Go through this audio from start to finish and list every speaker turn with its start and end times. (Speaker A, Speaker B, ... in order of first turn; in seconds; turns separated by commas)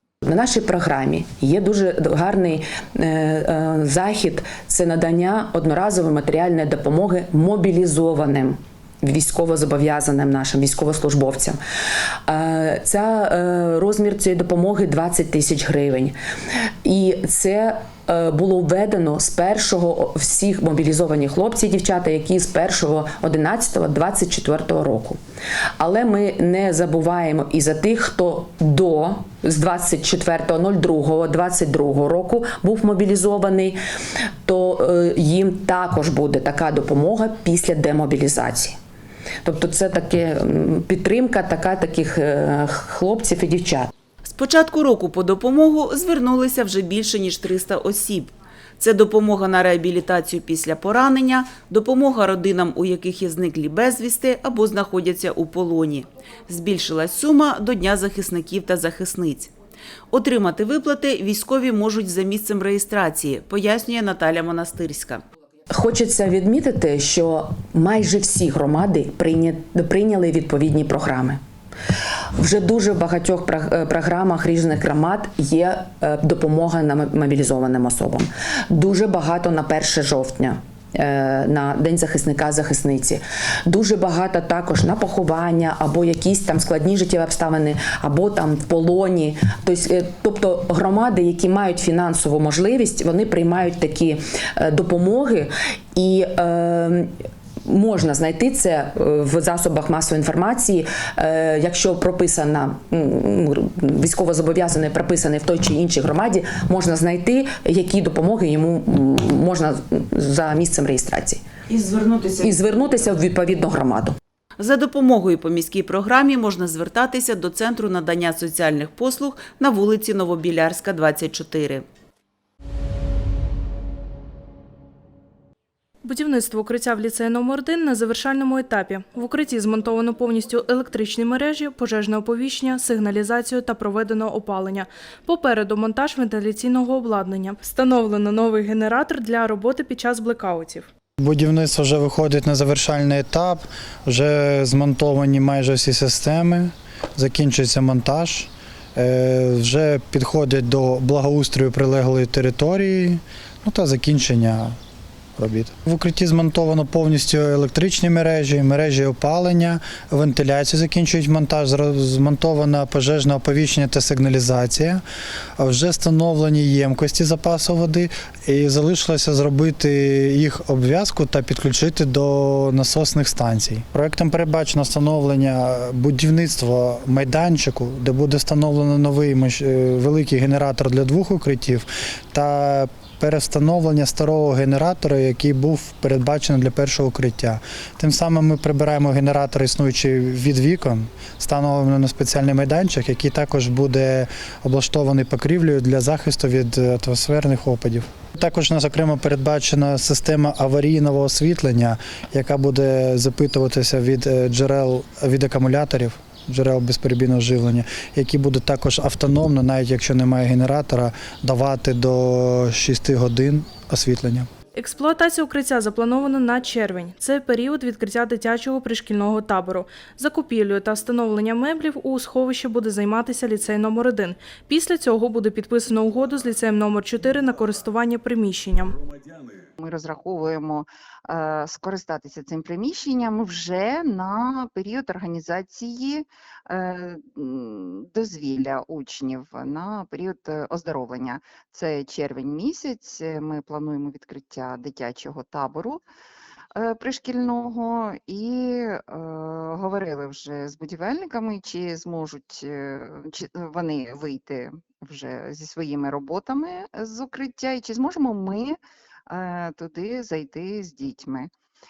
Speaker A: 0.2-11.6, Speaker A: 12.3-16.1, Speaker A: 16.8-25.2, Speaker A: 25.8-33.8, Speaker A: 34.4-38.8, Speaker A: 39.4-43.9, Speaker B: 44.2-59.5, Speaker B: 60.1-65.2, Speaker A: 65.7-71.4, Speaker A: 72.4-97.1, Speaker A: 97.6-111.4, Speaker B: 111.7-112.6, Speaker A: 112.4-114.2, Speaker B: 114.6-121.8, Speaker C: 126.0-140.9, Speaker D: 141.2-154.8, Speaker D: 155.4-165.0, Speaker D: 165.6-214.5, Speaker C: 214.8-229.0, Speaker E: 229.8-246.0, Speaker E: 246.8-258.8, Speaker E: 259.3-261.5